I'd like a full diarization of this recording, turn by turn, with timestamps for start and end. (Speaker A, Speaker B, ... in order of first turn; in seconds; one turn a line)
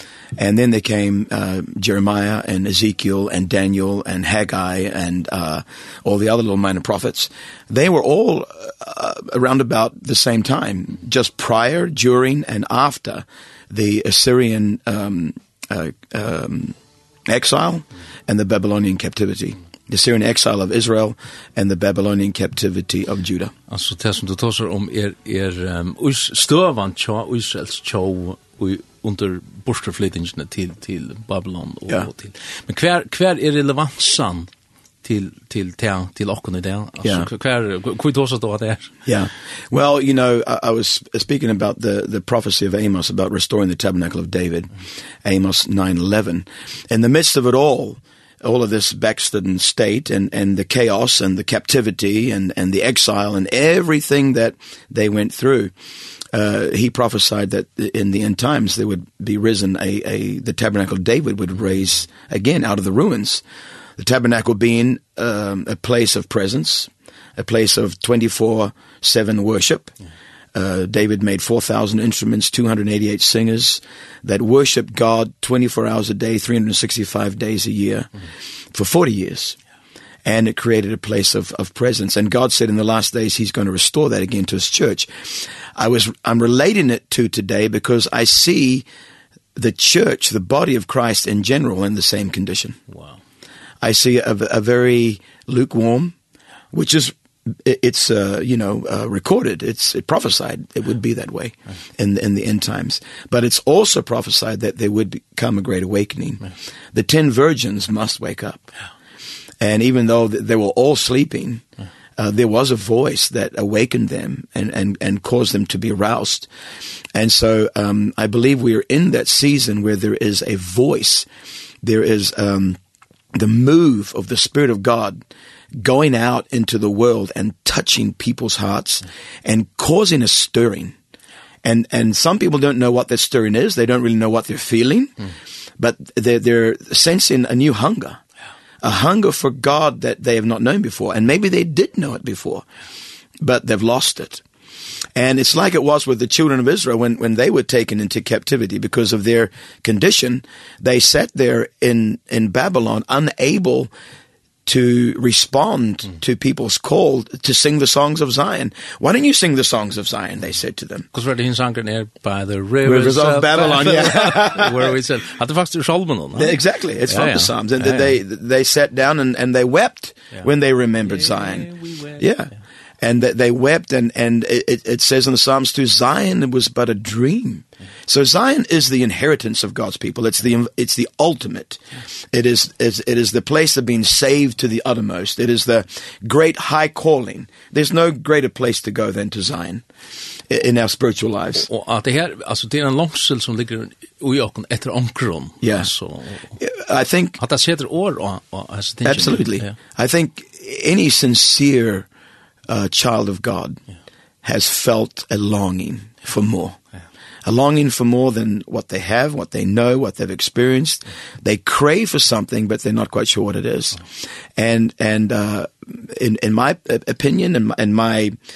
Speaker A: 0.3-16.8
Speaker A: 17.3-23.5
Speaker B: 23.7-34.5
Speaker B: 35.0-39.0
Speaker A: 37.0-37.3
Speaker A: 39.0-44.7
Speaker A: 45.2-55.7
Speaker A: 56.3-63.4
Speaker A: 64.0-69.9
Speaker A: 70.5-79.6
Speaker A: 80.2-88.9
Speaker A: 89.5-92.8
Speaker B: 92.9-93.2
Speaker A: 93.8-96.1
Speaker A: 96.7-108.7
Speaker A: 109.6-111.7
Speaker A: 112.2-116.5
Speaker A: 117.1-121.3
Speaker A: 121.8-122.8
Speaker A: 123.3-125.2
Speaker A: 125.8-130.9
Speaker A: 131.6-138.2
Speaker A: 138.8-142.6
Speaker A: 143.4-144.4
Speaker A: 145.1-153.9
Speaker A: 154.7-161.1
Speaker B: 161.1-168.2
Speaker A: 162.8-164.9
Speaker A: 166.3-181.8
Speaker B: 171.0-172.2
Speaker A: 182.3-189.8
Speaker A: 190.5-191.7
Speaker B: 191.6-196.6
Speaker A: 195.6-195.9
Speaker A: 196.6-197.4
Speaker B: 197.4-199.7
Speaker A: 199.0-202.1
Speaker A: 202.7-203.8
Speaker A: 204.4-206.8
Speaker A: 207.4-218.3